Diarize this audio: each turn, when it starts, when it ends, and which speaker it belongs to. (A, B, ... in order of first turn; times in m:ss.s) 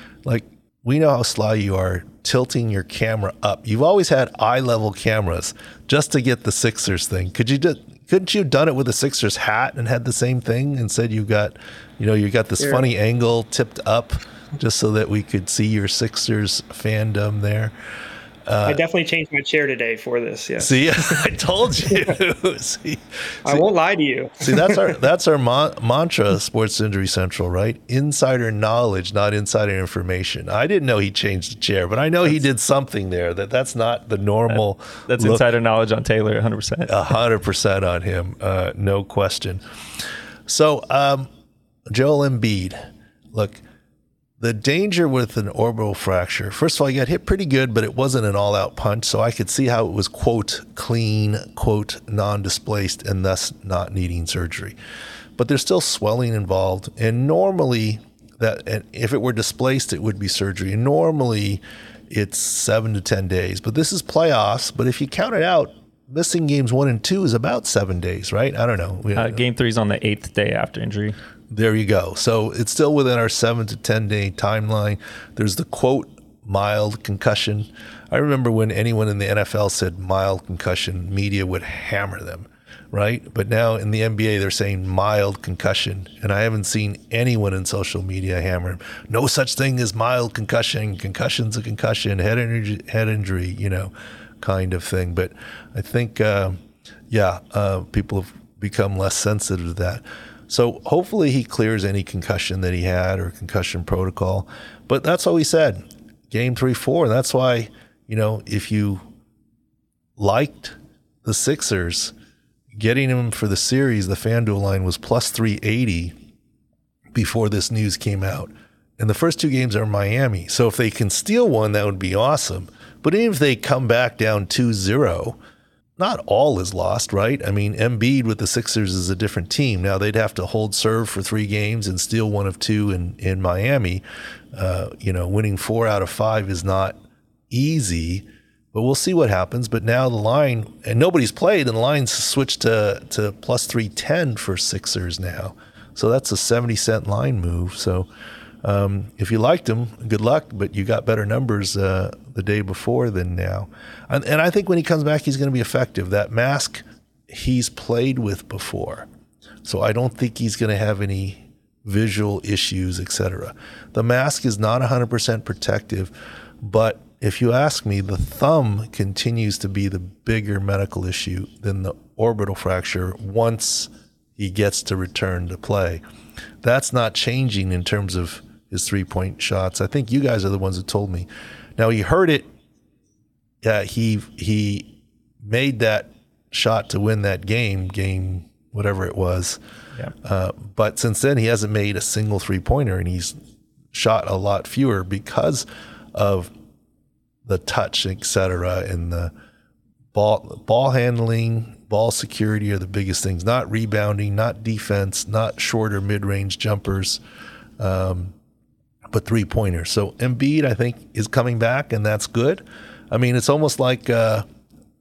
0:00.2-0:17.7 A
0:12.6-0:12.9 B
0:18.5-0:18.8 A
0:18.7-0:21.1 B
0:20.6-0:23.7 A
0:23.4-0:24.8 B
0:24.4-0:35.5 A
0:34.5-0:37.0 C
0:36.9-0:39.6 A
0:40.5-0:41.3 A
0:41.9-0:42.8 A
0:43.3-0:43.6 A
0:44.4-0:54.8 A
0:55.4-1:09.4 A
1:09.2-1:11.2 C
1:11.5-1:36.6 A
1:37.1-1:49.0 A
1:50.2-1:52.1 A
1:52.8-1:56.2 A
1:57.1-2:05.4 A
2:06.0-2:14.0 A
2:14.5-2:17.0 A
2:17.5-2:28.1 A
2:28.6-2:39.1 A
2:39.6-2:56.0 A
2:56.6-3:02.5 A
3:03.6-3:09.6 A
3:10.2-3:13.4 A
3:13.9-3:16.5 A
3:17.4-3:19.3 A
3:20.1-3:27.2 A
3:27.8-3:28.4 A
3:29.1-3:34.5 A